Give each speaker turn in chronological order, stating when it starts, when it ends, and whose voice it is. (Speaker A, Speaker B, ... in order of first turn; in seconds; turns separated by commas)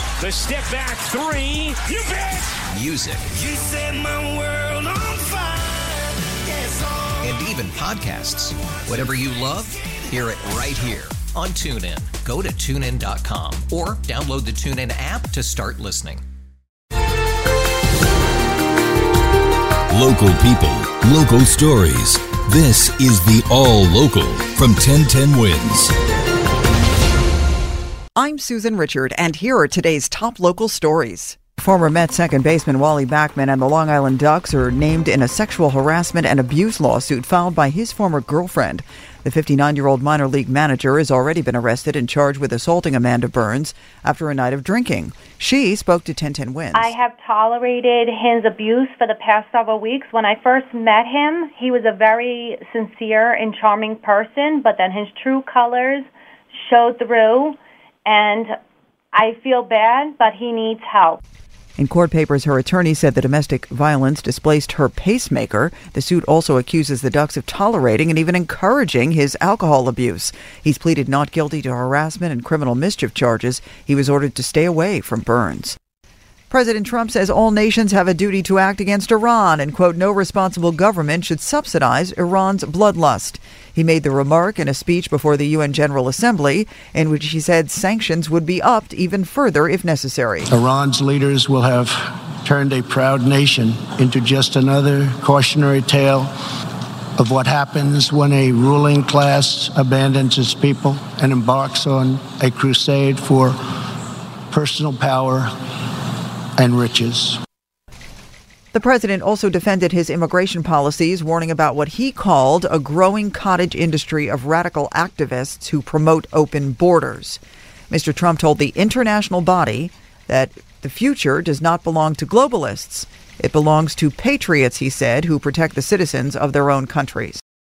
Speaker A: 0.2-2.5, Speaker B: 2.7-3.3, Speaker C: 3.4-7.0, Speaker B: 7.2-16.2, Speaker D: 19.9-25.9, Speaker E: 28.1-47.0, Speaker F: 46.7-56.0, Speaker F: 56.6-58.5, Speaker F: 59.1-61.2, Speaker E: 61.8-75.8, Speaker E: 76.5-90.5, Speaker G: 90.5-96.3, Speaker G: 97.2-103.6, Speaker G: 104.5-105.5, Speaker G: 106.6-107.4, Speaker E: 108.7-127.4